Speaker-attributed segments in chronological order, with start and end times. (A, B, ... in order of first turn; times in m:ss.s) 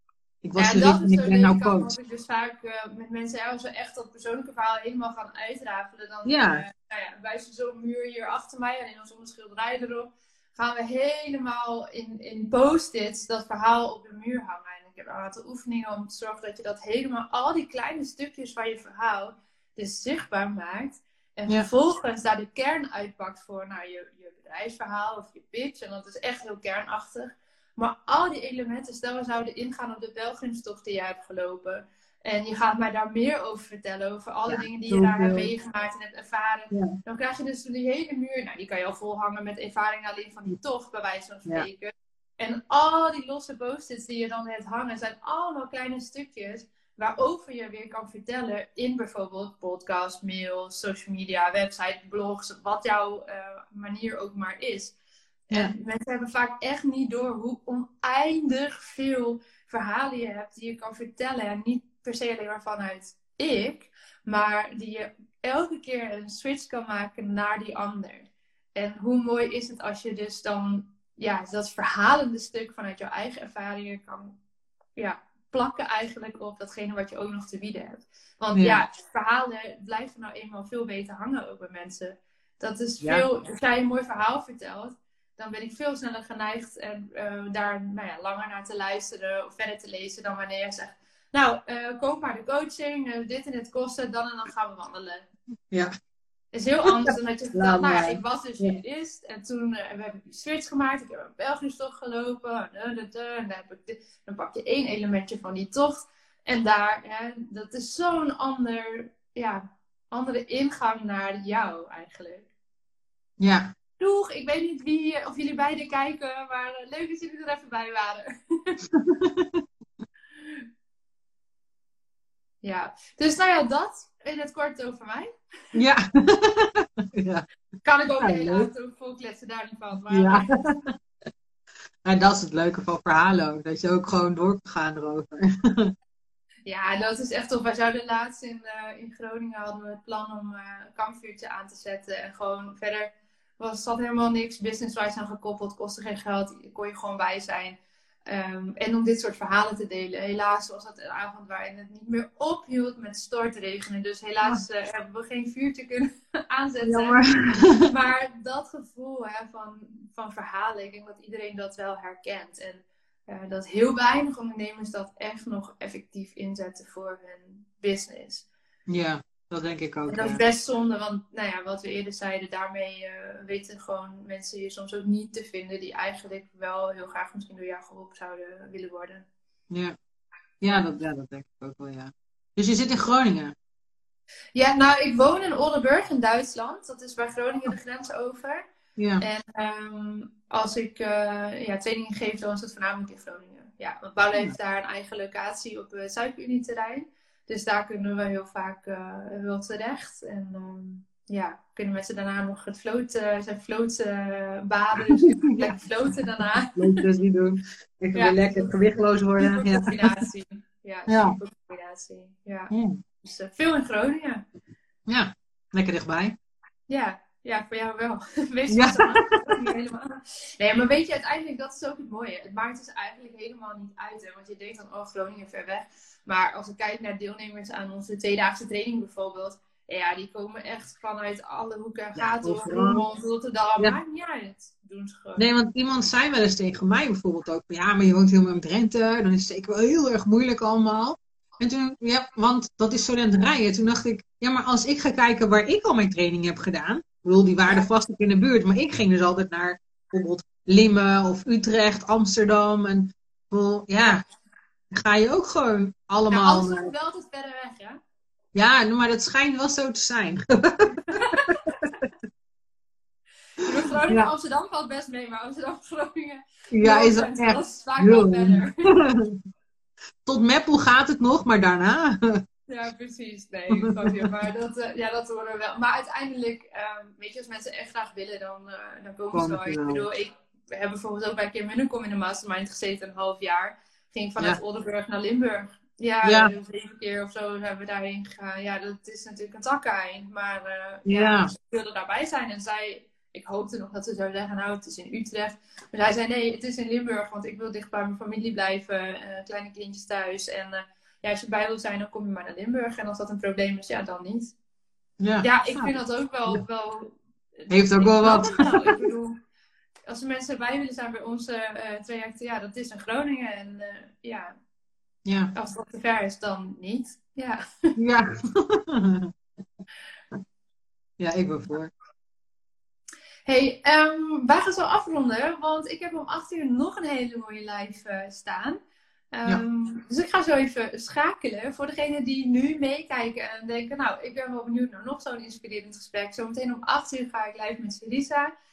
0:00.4-0:01.9 A
0:00.6-0:55.0 B
0:06.2-0:06.6 A
0:34.5-0:35.5 A
0:36.7-0:37.0 A
0:55.5-1:14.4 B
1:15.0-1:35.3 B
1:18.6-1:18.8 A
1:36.5-1:52.5 B
1:36.8-1:38.8 A
1:53.4-1:53.7 A
1:54.0-1:58.8 B
1:58.9-1:59.6 A
2:02.6-2:05.3 B
2:05.7-2:07.5 A
2:07.8-2:10.6 B
2:08.2-2:08.7 A
2:10.1-2:10.8 A
2:12.0-2:15.9 A
2:16.7-2:37.2 B
2:36.8-2:37.9 A
2:37.9-2:48.5 B
2:48.9-2:50.4 A
2:50.1-2:59.3 B
2:59.7-3:00.0 A
3:00.6-3:03.6 A
3:04.6-3:08.6 B
3:09.0-3:09.2 A
3:09.2-3:27.1 B
3:26.8-3:30.1 A
3:28.2-3:28.8 B
3:29.4-3:32.7 B
3:31.1-3:31.4 A
3:32.7-3:33.0 A
3:33.2-3:34.4 B
3:35.1-3:36.4 A
3:36.9-3:55.4 B
3:38.7-3:39.7 A
3:52.2-3:53.0 A
3:55.4-4:14.2 A
4:14.9-4:16.9 A
4:16.3-4:18.0 B
4:18.6-4:21.5 A
4:21.1-4:21.9 B
4:23.6-4:28.9 B
4:26.7-4:29.4 A
4:30.2-4:32.4 A
4:32.7-5:04.6 B
4:33.7-4:34.4 A
4:39.3-4:40.1 A
4:46.2-4:46.5 A
4:51.1-4:51.5 A
5:05.2-5:06.0 A
5:05.4-5:09.4 B
5:07.7-5:09.0 A
5:10.1-5:14.6 B
5:15.2-5:15.5 A
5:15.6-5:17.9 B
5:18.0-5:19.3 A
5:21.2-5:21.9 A
5:23.5-5:28.8 B
5:29.3-5:38.5 B